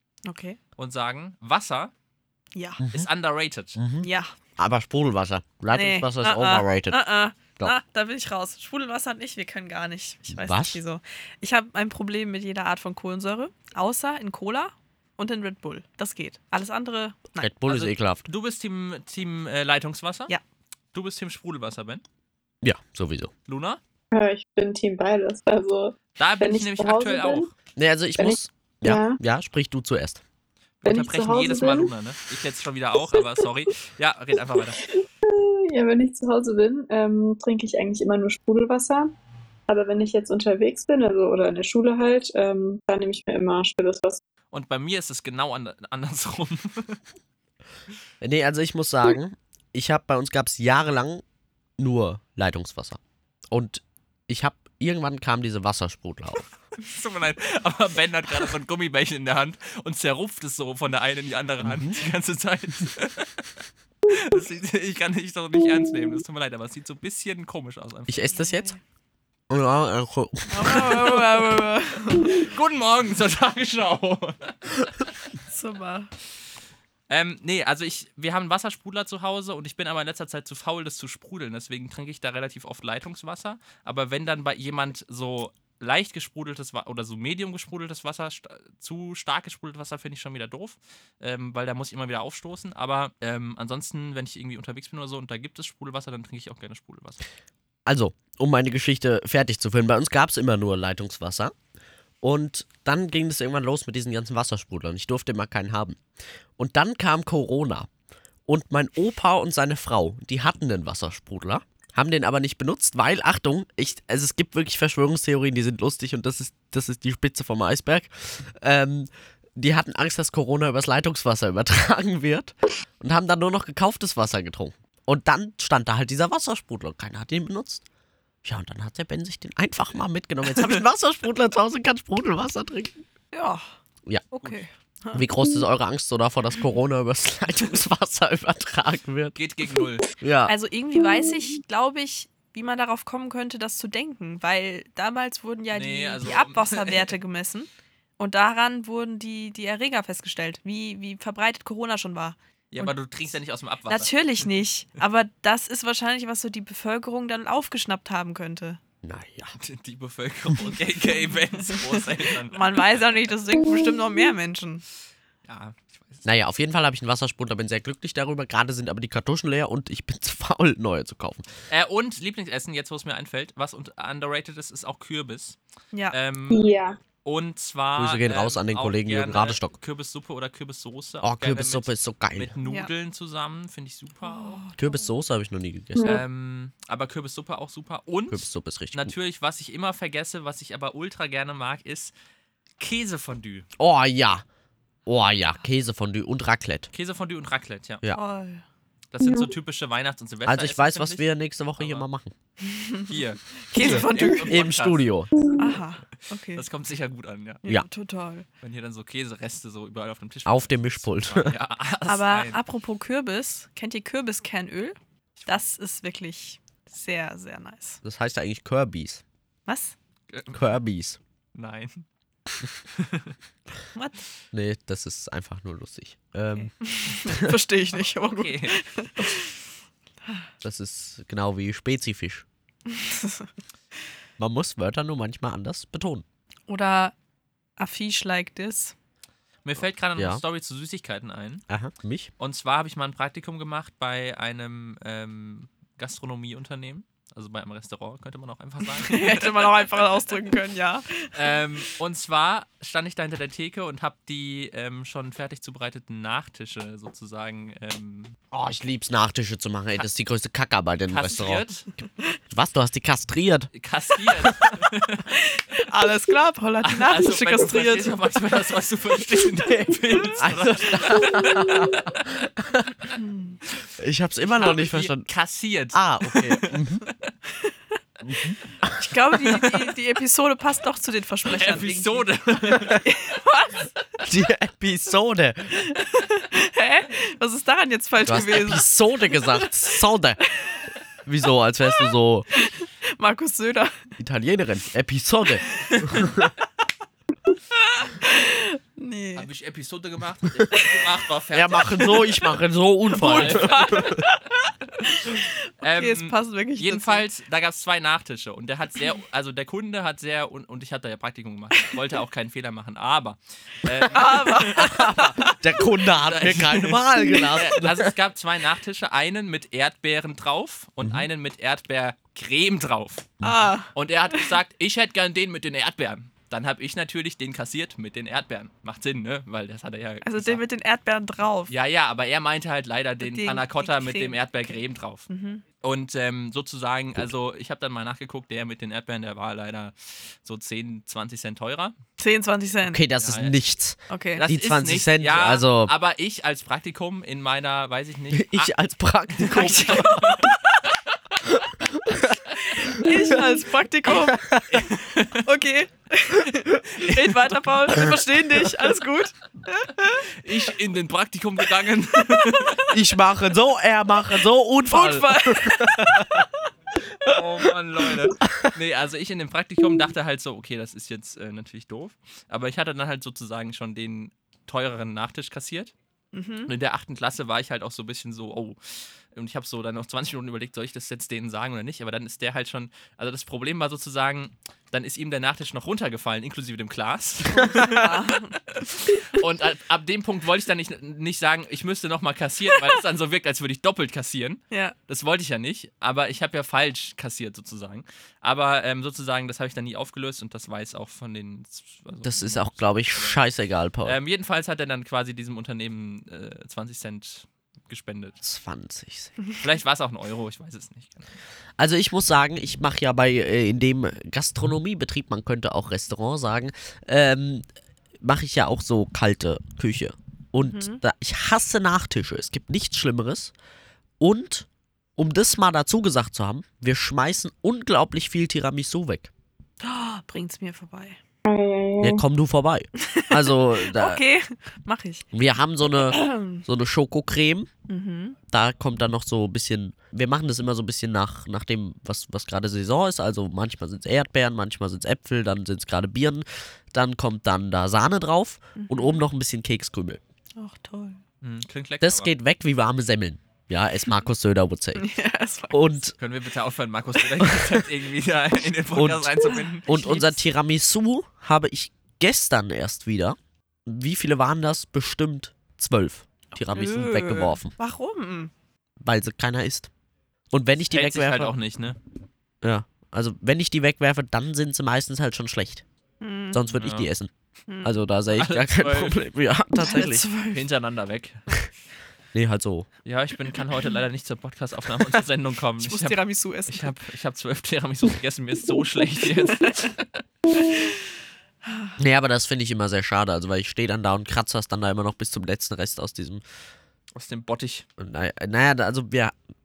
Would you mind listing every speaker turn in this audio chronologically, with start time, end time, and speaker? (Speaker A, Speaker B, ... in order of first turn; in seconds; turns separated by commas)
Speaker A: 0.2-0.6, Speaker B: 0.8-1.9, Speaker A: 2.5-2.8, Speaker C: 2.8-3.1, Speaker B: 2.9-3.8, Speaker C: 3.8-7.0, Speaker A: 4.0-4.3, Speaker A: 5.7-17.5, Speaker C: 10.3-10.8, Speaker C: 17.4-18.2, Speaker B: 17.7-20.3, Speaker B: 20.9-22.0, Speaker C: 22.6-23.3, Speaker B: 23.5-23.8, Speaker D: 24.1-27.5, Speaker B: 26.2-27.5, Speaker C: 27.8-30.2, Speaker D: 28.2-29.2, Speaker B: 30.8-34.9, Speaker D: 30.8-31.9, Speaker D: 35.2-39.1, Speaker D: 39.7-44.2, Speaker B: 44.5-47.0, Speaker C: 48.2-51.2, Speaker C: 51.8-56.5, Speaker B: 56.8-63.5, Speaker C: 61.6-62.0, Speaker B: 64.1-68.4, Speaker C: 68.1-68.7, Speaker A: 68.3-68.8, Speaker C: 69.5-71.2, Speaker A: 70.5-72.4, Speaker B: 70.8-71.2, Speaker B: 72.2-74.9, Speaker A: 75.5-76.1, Speaker B: 77.1-97.2, Speaker C: 97.8-101.5, Speaker C: 102.2-106.0, Speaker C: 106.6-107.9, Speaker C: 108.5-127.8, Speaker C: 128.4-133.0, Speaker A: 133.3-133.6, Speaker A: 134.3-135.3, Speaker C: 135.1-139.4, Speaker B: 139.3-140.1, Speaker C: 140.2-140.5, Speaker A: 140.4-152.9, Speaker B: 145.7-147.1, Speaker B: 152.7-154.5, Speaker A: 153.9-158.8, Speaker C: 159.0-159.5, Speaker B: 159.6-162.8, Speaker A: 162.5-164.8, Speaker B: 165.4-166.3, Speaker C: 166.2-171.4, Speaker B: 171.7-175.6, Speaker B: 176.1-176.7, Speaker D: 176.5-177.0, Speaker B: 177.2-184.6, Speaker C: 177.9-179.8, Speaker C: 181.2-182.5, Speaker A: 182.6-182.9, Speaker A: 184.2-185.0, Speaker C: 184.8-186.2, Speaker D: 185.9-186.2, Speaker B: 186.0-192.1, Speaker C: 188.3-189.1, Speaker B: 192.8-193.7, Speaker C: 193.8-194.4, Speaker C: 195.1-196.9, Speaker B: 196.9-198.0, Speaker A: 198.1-198.6, Speaker B: 199.1-202.1, Speaker D: 199.2-199.5, Speaker C: 200.4-202.3, Speaker A: 202.6-204.6, Speaker B: 203.1-205.0, Speaker C: 203.7-205.3, Speaker A: 205.6-206.6, Speaker B: 206.5-207.6, Speaker A: 207.6-208.4, Speaker B: 208.6-212.6, Speaker C: 210.4-211.6, Speaker A: 212.1-218.0, Speaker C: 218.0-219.2, Speaker A: 219.7-219.9, Speaker B: 220.3-220.6, Speaker C: 220.5-221.2, Speaker B: 221.5-222.1, Speaker B: 222.9-223.3, Speaker A: 223.9-224.2, Speaker C: 224.5-226.7, Speaker A: 226.6-229.6, Speaker C: 227.2-227.5, Speaker B: 228.2-228.8, Speaker C: 230.6-232.4, Speaker A: 232.9-233.5, Speaker C: 234.4-236.2, Speaker A: 236.7-237.1, Speaker A: 237.8-238.9, Speaker B: 239.6-241.6, Speaker C: 240.2-240.4, Speaker C: 241.7-242.3, Speaker B: 242.4-250.1, Speaker A: 248.8-251.6, Speaker B: 251.3-258.4, Speaker C: 258.5-261.6, Speaker B: 261.1-261.9, Speaker C: 262.5-263.7, Speaker B: 263.7-265.3, Speaker A: 265.3-268.2, Speaker B: 266.8-271.6, Speaker C: 269.7-272.9, Speaker A: 273.1-273.6, Speaker C: 274.0-275.3, Speaker B: 274.6-276.8, Speaker C: 275.9-277.0, Speaker C: 278.2-279.0, Speaker A: 278.9-283.9, Speaker B: 279.6-279.8, Speaker B: 281.4-283.0, Speaker C: 284.2-285.8, Speaker A: 285.8-289.7, Speaker C: 288.2-290.4, Speaker C: 291.2-292.5, Speaker A: 292.5-294.0, Speaker C: 294.2-296.5, Speaker A: 297.7-299.5, Speaker B: 299.4-302.3, Speaker C: 301.5-304.2, Speaker A: 303.1-307.2, Speaker B: 303.2-304.2, Speaker B: 305.8-315.5, Speaker A: 314.1-315.6, Speaker C: 314.6-318.1, Speaker B: 316.1-323.3, Speaker C: 321.0-321.3, Speaker A: 323.4-324.5, Speaker B: 323.9-330.6, Speaker A: 330.2-331.7, Speaker B: 331.7-335.3, Speaker A: 333.2-334.8, Speaker A: 335.3-335.6, Speaker B: 335.8-341.9, Speaker A: 342.2-343.0, Speaker C: 342.9-345.9, Speaker B: 343.2-343.6, Speaker A: 344.1-344.4, Speaker B: 344.4-348.7, Speaker C: 348.3-350.4, Speaker B: 349.3-350.9, Speaker A: 349.5-350.8, Speaker C: 351.5-353.5, Speaker A: 352.6-354.5, Speaker C: 354.1-354.9, Speaker B: 354.7-355.5, Speaker A: 355.4-360.3, Speaker B: 357.0-357.6, Speaker B: 360.4-362.9, Speaker A: 362.4-362.8, Speaker C: 362.9-366.5, Speaker A: 364.9-366.5, Speaker B: 367.2-375.9, Speaker C: 368.4-368.7, Speaker A: 376.3-376.7, Speaker B: 376.7-403.4, Speaker A: 387.5-388.6, Speaker C: 402.2-404.2, Speaker B: 404.0-408.4, Speaker C: 408.4-409.3, Speaker B: 409.6-411.3, Speaker C: 411.8-417.6, Speaker C: 418.2-423.5, Speaker A: 420.6-421.0, Speaker C: 424.2-429.3, Speaker A: 429.8-431.2, Speaker D: 431.4-432.2, Speaker C: 432.0-434.2, Speaker A: 433.0-435.3, Speaker C: 435.3-437.7, Speaker A: 435.9-436.6, Speaker A: 437.9-438.4, Speaker C: 438.5-450.2, Speaker A: 448.8-449.2, Speaker A: 450.6-451.2, Speaker B: 451.4-452.3, Speaker C: 452.0-455.1, Speaker A: 454.9-456.0, Speaker C: 455.7-456.1, Speaker B: 456.2-460.2, Speaker C: 457.4-457.9, Speaker C: 458.9-467.7, Speaker A: 459.5-460.3, Speaker A: 466.6-468.5, Speaker C: 469.0-469.9, Speaker C: 470.5-471.5, Speaker B: 470.9-472.0, Speaker C: 472.6-475.8, Speaker A: 476.2-476.6, Speaker C: 476.5-477.3, Speaker B: 476.7-477.1, Speaker A: 477.7-477.9, Speaker C: 477.8-480.2, Speaker B: 478.3-479.2, Speaker A: 479.8-480.6, Speaker B: 480.5-481.5, Speaker C: 482.3-482.9, Speaker B: 483.0-490.2, Speaker A: 485.8-486.9, Speaker A: 489.6-489.9, Speaker A: 490.5-491.0, Speaker A: 491.6-492.0, Speaker C: 492.0-496.4, Speaker B: 497.1-497.8, Speaker C: 498.0-499.3